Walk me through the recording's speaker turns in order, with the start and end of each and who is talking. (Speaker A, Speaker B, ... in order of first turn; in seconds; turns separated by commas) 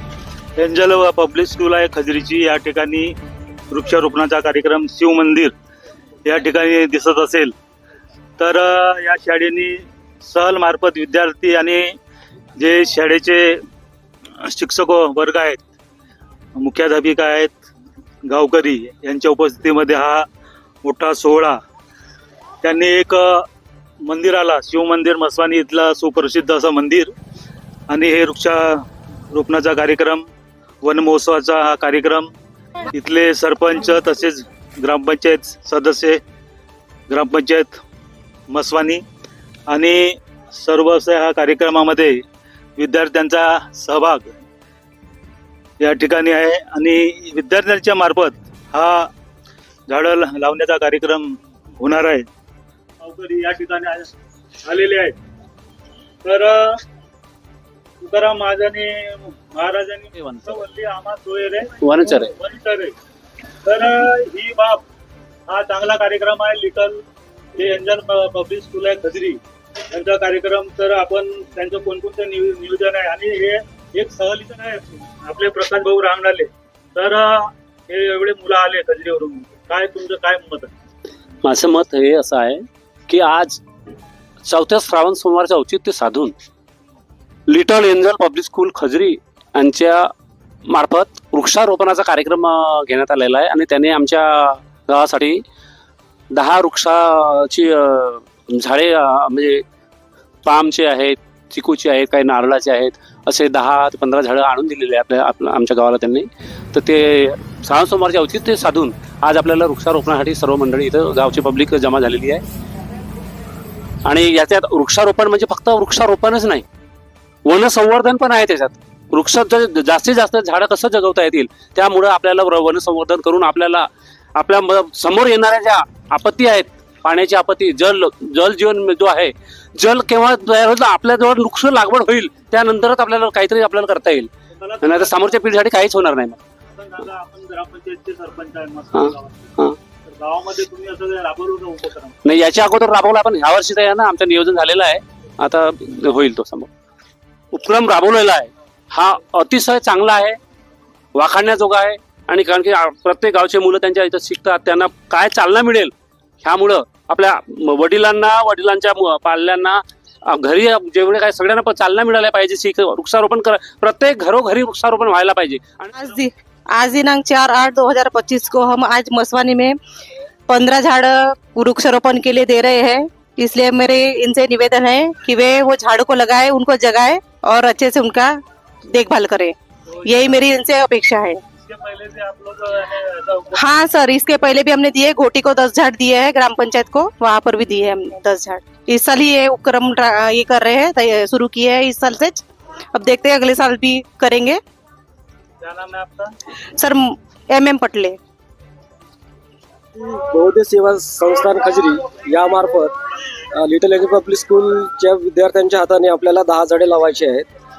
Speaker A: 0.6-3.1, Speaker A: 3.7-5.5, Speaker A: 6.2-7.5, Speaker A: 8.4-11.9, Speaker A: 12.6-13.6, Speaker A: 14.4-15.6, Speaker A: 16.6-17.6, Speaker A: 18.2-20.3, Speaker A: 20.8-21.6, Speaker A: 22.6-23.4, Speaker A: 24.0-27.1, Speaker A: 27.9-30.3, Speaker A: 30.8-32.3, Speaker A: 32.9-36.2, Speaker A: 37.1-37.8, Speaker A: 38.5-39.0, Speaker A: 39.7-42.2, Speaker A: 42.8-44.3, Speaker A: 45.8-49.1, Speaker A: 49.9-52.2, Speaker A: 53.0-54.1, Speaker A: 54.6-55.1, Speaker A: 56.2-56.8, Speaker A: 58.0-61.8, Speaker B: 60.1-60.6, Speaker B: 61.8-62.3, Speaker A: 62.3-62.9, Speaker A: 63.6-64.8, Speaker A: 65.5-67.0, Speaker A: 67.5-80.7, Speaker B: 81.4-83.6, Speaker B: 84.4-86.3, Speaker B: 87.5-90.1, Speaker B: 90.7-95.4, Speaker B: 96.3-99.6, Speaker B: 100.4-112.4, Speaker B: 114.0-116.6, Speaker B: 117.4-134.3, Speaker A: 134.5-135.4, Speaker B: 134.8-136.4, Speaker A: 136.7-142.2, Speaker B: 138.9-139.8, Speaker B: 142.2-146.7, Speaker B: 147.5-150.4, Speaker B: 151.1-155.9, Speaker B: 156.4-165.9, Speaker C: 165.9-169.8, Speaker C: 170.5-178.4, Speaker C: 178.9-181.4, Speaker A: 179.9-180.5, Speaker A: 181.6-183.6, Speaker C: 183.6-194.6, Speaker A: 195.6-196.3, Speaker C: 196.8-198.2, Speaker D: 199.9-202.9, Speaker D: 203.5-207.4